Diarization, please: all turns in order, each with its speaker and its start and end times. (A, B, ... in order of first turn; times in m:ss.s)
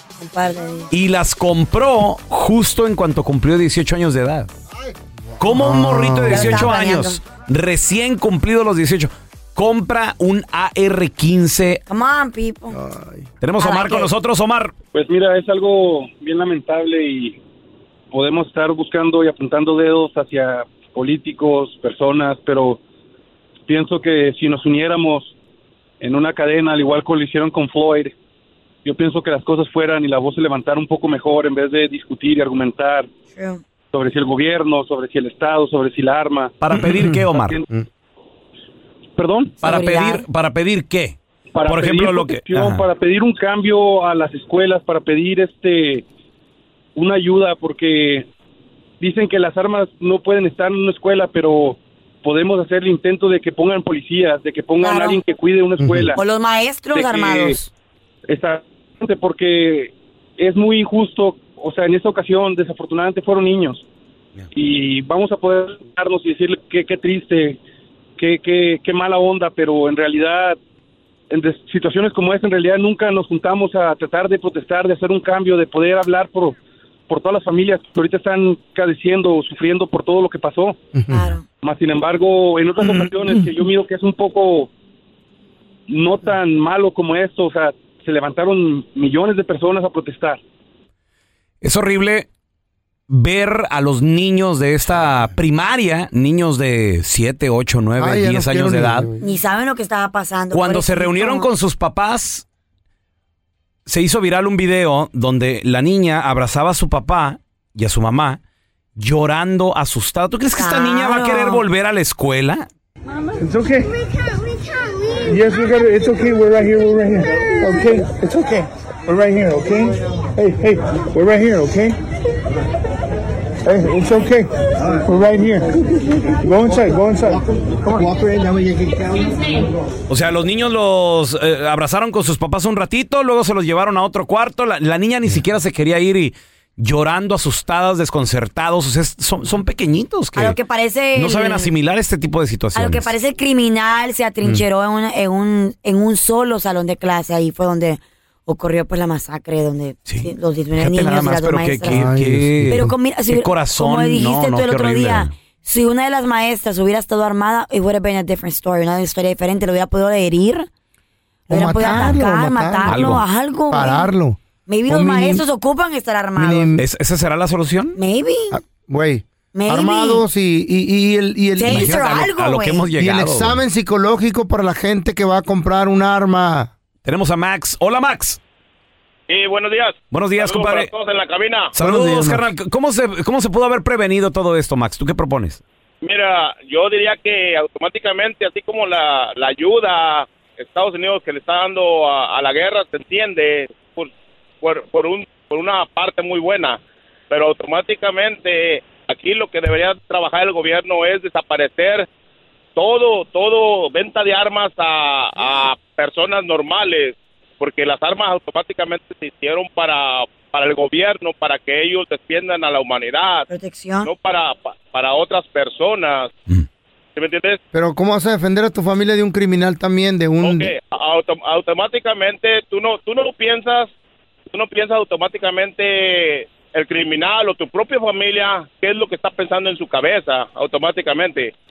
0:00.2-0:00.9 A
0:00.9-0:04.5 B
0:04.7-0:06.7 C
0:05.4-0:11.8 B
0:06.3-0:07.2 A
0:11.9-0:12.8 A
0:12.7-0:13.3 C
0:13.4-0:14.7 B
0:13.6-0:14.1 A
0:14.9-0:17.4 D
0:18.1-0:22.8 D
0:23.7-0:25.3 D
0:26.0-0:28.1 D
0:28.8-0:33.1 D
0:33.3-0:33.6 A
0:33.9-0:36.6 D
0:36.6-0:37.6 B
0:36.7-0:37.8 C
0:37.2-0:37.7 D
0:39.2-0:39.5 D
0:39.6-0:40.2 A
0:39.6-0:42.8 B
0:41.5-0:46.0 D
0:46.9-0:48.3 D
0:49.0-0:56.2 D
0:54.8-0:55.2 A
0:55.8-0:56.1 C
0:56.1-0:57.7 A
0:56.9-0:57.6 D
0:58.3-1:03.8 D
1:04.5-1:07.6 D
1:08.2-1:10.6 D
1:11.3-1:16.6 D
1:17.1-1:20.8 D
1:20.9-1:21.4 C
1:21.1-1:21.4 A
1:21.6-1:24.7 D
1:25.9-1:30.4 D
1:31.6-1:32.3 B
1:33.1-1:39.1 B
1:38.0-1:39.3 C
1:39.2-1:41.5 A
1:40.5-1:42.4 B
1:43.9-1:48.4 B
1:49.0-1:52.7 B
1:50.6-1:51.6 A
1:53.4-1:53.9 E
1:55.2-2:02.0 E
2:03.6-2:05.7 E
2:06.4-2:08.7 E
2:10.1-2:20.6 B
2:20.4-2:21.7 A
2:21.1-2:23.1 B
2:22.7-2:32.0 A
2:30.1-2:35.3 B
2:31.9-2:32.9 C
2:32.7-2:40.7 A
2:41.5-2:44.1 A
2:41.5-2:45.4 C
2:42.8-2:43.2 B
2:44.6-2:46.7 A
2:46.4-2:46.8 C
2:46.8-2:48.0 B
2:48.0-2:48.6 A
2:48.5-2:52.0 C
2:49.5-2:50.2 A
2:51.6-2:52.9 A
2:51.6-2:53.6 B
2:53.0-2:56.7 C
2:57.0-2:58.4 B
2:59.3-3:01.7 F
3:00.1-3:00.9 B
3:01.7-3:05.6 B
3:01.8-3:02.5 C
3:06.0-3:14.1 F
3:14.6-3:16.8 F
3:17.3-3:22.1 F
3:22.8-3:33.4 F
3:33.5-3:34.1 A
3:34.0-3:36.3 F
3:37.2-3:37.6 F
3:37.7-3:40.7 C
3:40.4-3:43.9 F
3:44.5-3:51.5 F